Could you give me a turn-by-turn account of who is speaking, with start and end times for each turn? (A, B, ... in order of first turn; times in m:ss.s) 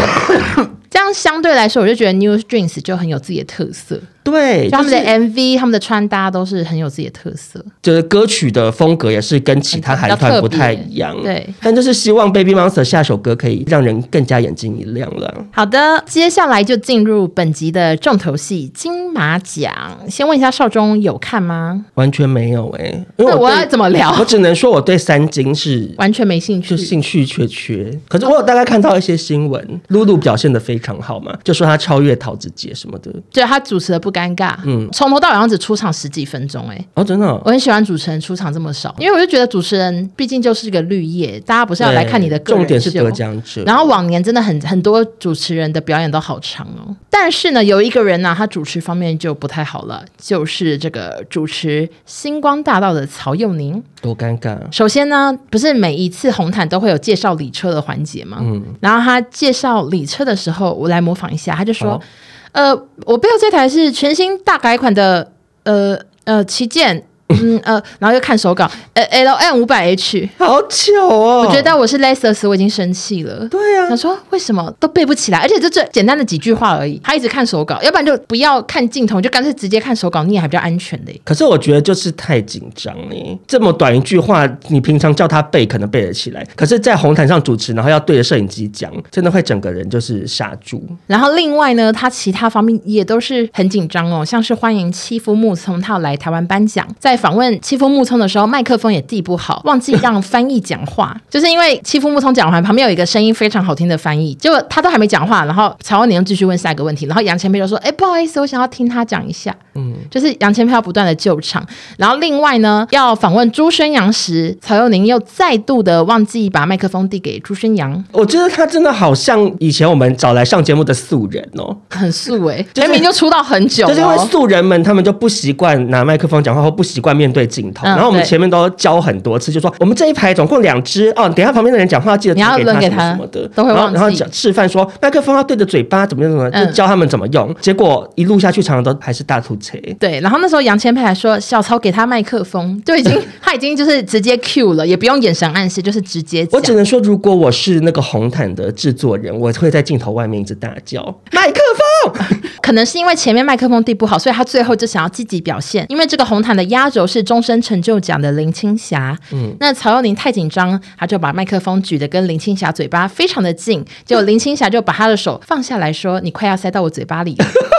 0:00.4-0:04.1 A
0:04.2-0:05.1 B
0:04.7-0:07.7 A
0:07.8-0:15.5 B
0:09.7-0:11.6 A
0:15.5-0:21.9 A
0:22.0-0:26.0 B
0:23.2-0:24.3 A
0:26.0-0:26.9 A
0:26.7-0:33.2 B
0:33.3-0:36.9 A
0:34.6-0:34.9 B
0:37.0-0:37.5 B
0:37.4-0:53.9 A
0:41.8-0:44.0 B
0:54.0-0:54.7 B
0:54.7-1:02.0 A
0:58.4-0:58.8 B
1:02.5-1:10.3 A
1:10.4-1:11.7 B
1:11.4-1:21.2 A
1:13.5-1:14.0 B
1:21.3-1:31.0 B
1:31.1-1:49.6 A
1:49.8-1:50.1 B
1:50.1-1:58.1 A
1:58.1-2:01.9 B
2:01.9-2:04.3 A
2:02.8-2:03.1 B
2:03.8-2:20.0 B
2:07.8-2:08.3 A
2:12.4-2:14.3 A
2:16.5-2:16.8 A
2:20.0-2:26.8 A
2:26.5-2:32.4 B
2:32.5-2:47.6 A
2:39.3-2:39.6 B